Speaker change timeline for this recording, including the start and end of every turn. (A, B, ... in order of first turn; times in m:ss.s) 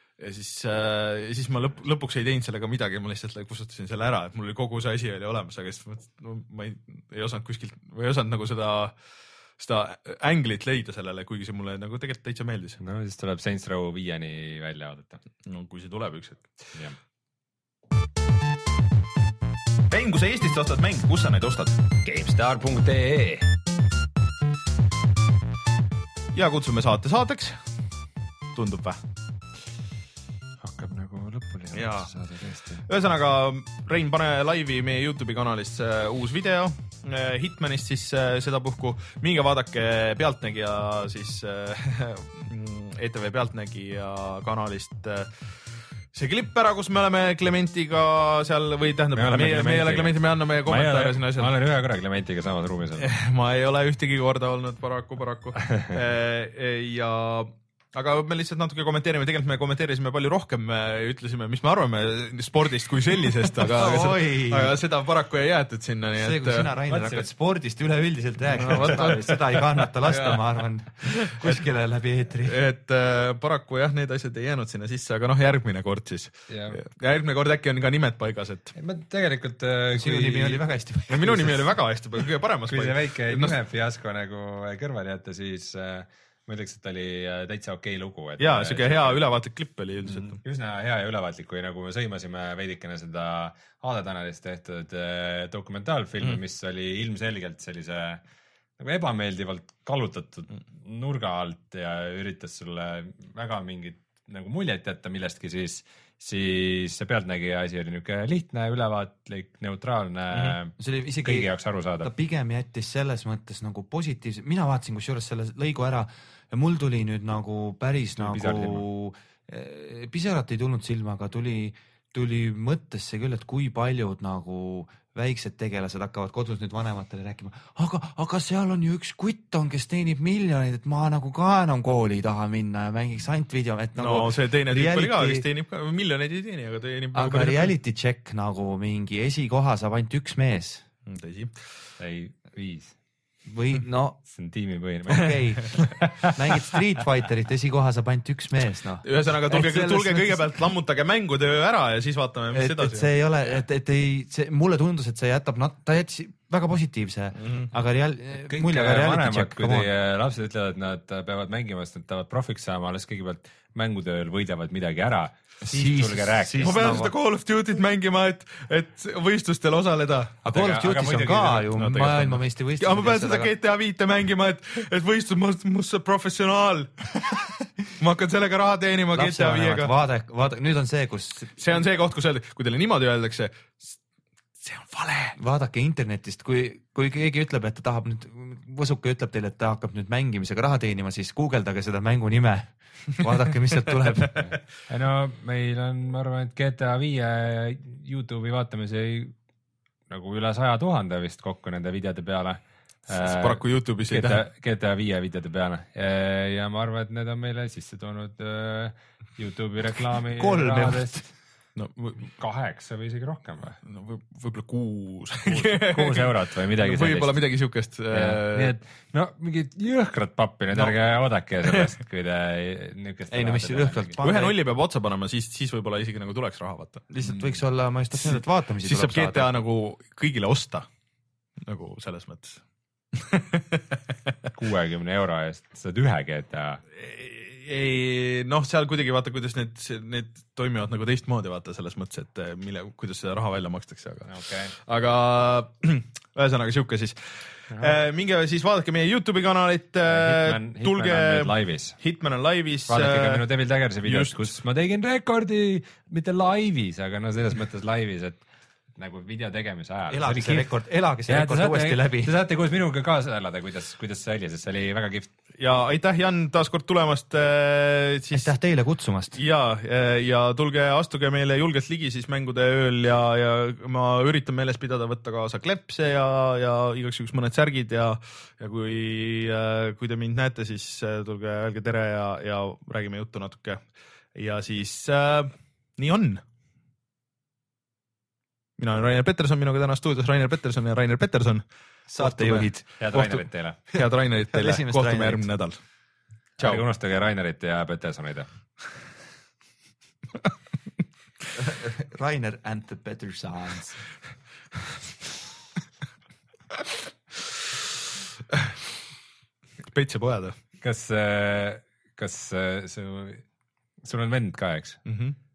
0:00.2-0:08.9 A
0:09.6-0:12.8 A
0:12.8-0:15.2 B
0:15.4-0:16.5 A
0:19.9-0:21.8 A
0:22.0-0:23.5 B
0:26.3-0:27.6 A
0:28.5-0:29.0 A
0:30.6-0:32.8 B
0:31.7-0:32.1 A
0:32.8-0:45.3 A
0:46.1-0:51.5 A
0:49.1-0:53.1 B
0:53.0-1:06.7 A
0:55.6-0:55.9 B
1:03.6-1:04.8 C
1:06.2-1:12.6 C
1:06.9-1:07.2 B
1:08.5-1:09.4 A
1:10.0-1:10.5 A
1:12.4-1:18.7 A
1:16.5-1:16.8 B
1:18.8-1:20.6 B
1:19.9-1:21.8 C
1:21.1-1:23.6 A
1:22.7-1:29.2 B
1:28.4-1:30.4 A
1:30.0-1:38.2 B
1:38.8-1:52.1 B
1:50.8-2:15.4 C
1:58.2-1:58.8 B
2:14.0-2:17.7 A
2:17.1-2:20.8 C
2:21.1-2:21.5 A
2:22.0-2:23.0 B
2:23.4-2:24.2 C
2:24.3-2:26.7 B
2:25.1-2:30.7 C
2:29.0-2:33.1 A
2:32.5-2:39.9 C
2:37.4-2:37.7 A
2:38.5-2:47.1 B
2:45.7-2:47.1 C
2:46.6-2:50.4 A
2:50.4-2:53.5 C
2:50.5-2:51.7 B
2:51.7-2:57.3 A
2:58.0-2:59.9 A
2:59.1-3:01.8 C
3:01.6-3:04.0 A
3:04.6-3:05.4 A
3:05.4-3:14.5 C
3:14.4-3:19.3 B
3:20.1-3:31.2 B
3:23.1-3:24.4 A
3:30.4-3:31.3 C
3:31.8-3:32.2 A
3:32.2-3:33.8 B
3:33.8-3:38.7 A
3:35.4-3:37.4 B
3:38.1-3:44.2 B
3:43.3-3:44.5 C
3:44.2-3:47.6 A
3:47.2-3:49.5 C
3:48.1-3:50.8 A
3:51.6-3:52.6 A
3:53.1-3:54.0 A
3:54.5-3:56.8 B
3:56.9-4:13.4 A
4:04.2-4:04.7 B
4:07.7-4:08.0 B
4:10.0-4:12.0 B
4:12.9-4:18.4 B
4:14.0-4:14.5 A
4:19.0-4:20.7 B
4:20.1-4:22.3 C
4:21.3-4:25.3 B
4:25.6-4:28.5 A
4:28.3-4:29.4 C
4:29.4-4:46.4 A
4:48.8-4:51.6 A
4:52.1-4:52.9 C
4:52.2-4:55.8 A
4:53.0-4:53.8 B
4:54.5-4:55.5 C
4:56.6-4:58.5 B
5:01.5-5:04.0 C
5:08.5-5:08.8 A
5:09.9-5:10.6 A
5:10.8-5:13.4 B
5:14.0-5:15.0 B
5:15.0-5:15.4 A